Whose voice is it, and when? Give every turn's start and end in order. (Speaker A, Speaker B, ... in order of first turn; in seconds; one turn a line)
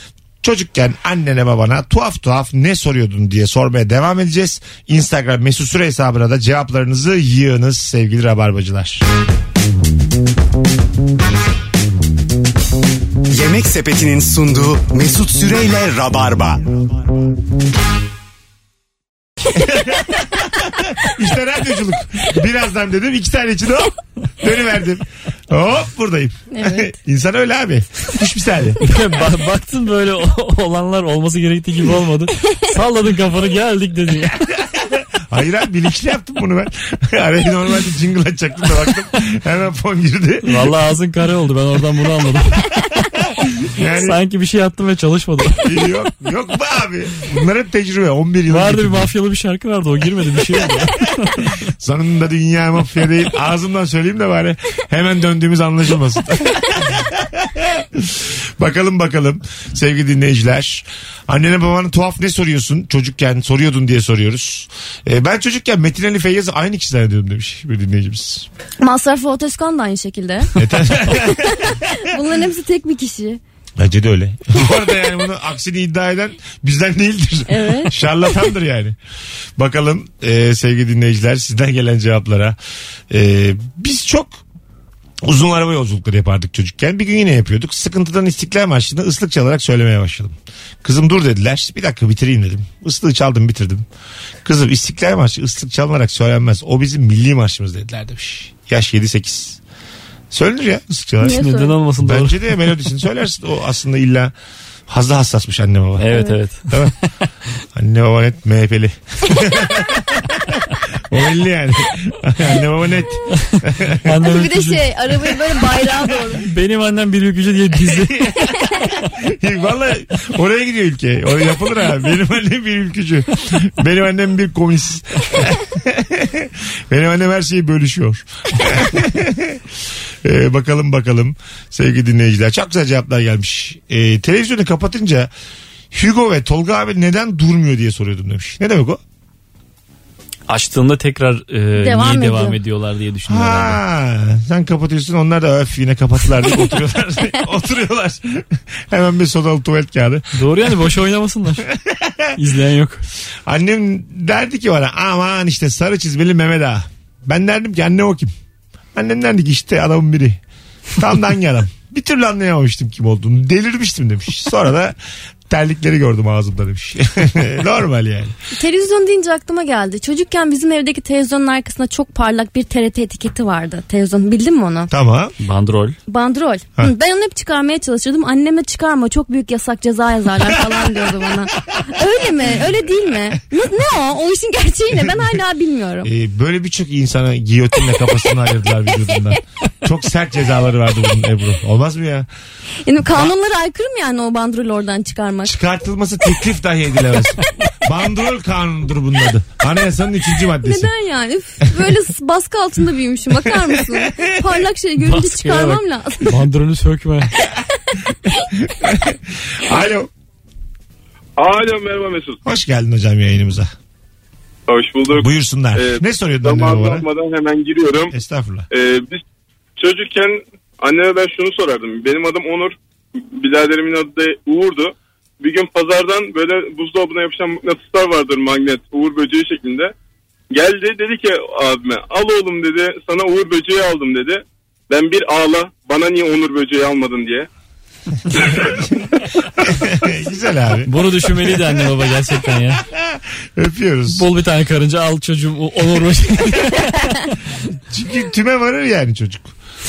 Speaker A: 0.4-9.1
Speaker B: 13.3-16.7
Speaker A: 19.5-28.8
Speaker C: 26.5-26.9
Speaker D: 28.8-34.5
Speaker A: 34.7-40.7
Speaker D: 40.4-42.7
Speaker A: 43.6-44.2
Speaker D: 44.0-45.8
Speaker A: 45.6-49.1
Speaker D: 48.5-51.6
Speaker A: 51.8-68.5
Speaker C: 68.8-70.5
Speaker A: 70.6-71.8
Speaker C: 71.1-73.4
Speaker A: 73.8-79.0
Speaker C: 77.5-77.9
Speaker A: 79.6-82.6
Speaker A: 83.1-84.4
Speaker A: 85.2-93.8
Speaker A: 94.5-99.6
Speaker A: 100.3-101.4
Speaker C: 101.2-101.8
Speaker D: 101.2-102.7
Speaker A: 102.0-104.3
Speaker A: 104.9-106.2
Speaker D: 106.0-106.9
Speaker A: 106.7-106.9
Speaker A: 107.8-114.1
Speaker D: 113.4-114.9
Speaker C: 114.2-116.5
Speaker D: 116.4-118.5
Speaker A: 118.0-129.6
Speaker A: 130.2-135.3
Speaker A: 135.9-139.0
Speaker D: 140.5-143.8
Speaker C: 141.8-142.6
Speaker A: 143.3-150.7
Speaker D: 150.3-151.7
Speaker A: 151.7-152.3
Speaker D: 152.3-153.0
Speaker A: 153.5-158.3
Speaker A: 158.9-160.4
Speaker A: 161.0-165.0
Speaker A: 165.5-168.3
Speaker C: 168.6-174.9
Speaker A: 174.9-175.3
Speaker D: 175.4-176.0
Speaker C: 176.1-186.1
Speaker A: 180.5-181.8
Speaker A: 186.0-192.3
Speaker C: 192.9-195.5
Speaker A: 195.4-200.9
Speaker C: 200.6-206.3
Speaker A: 203.5-204.6
Speaker D: 205.0-207.3
Speaker A: 208.3-210.1
Speaker E: 211.4-212.4
Speaker A: 212.4-213.7
Speaker E: 214.7-218.1
Speaker A: 215.1-217.1
Speaker A: 218.1-218.7
Speaker E: 218.7-219.2
Speaker E: 219.8-222.8
Speaker E: 223.3-229.9
Speaker E: 230.5-237.5
Speaker E: 238.4-238.7
Speaker A: 239.6-241.8
Speaker D: 240.9-242.8
Speaker A: 242.7-244.2
Speaker D: 244.1-247.1
Speaker A: 247.9-249.5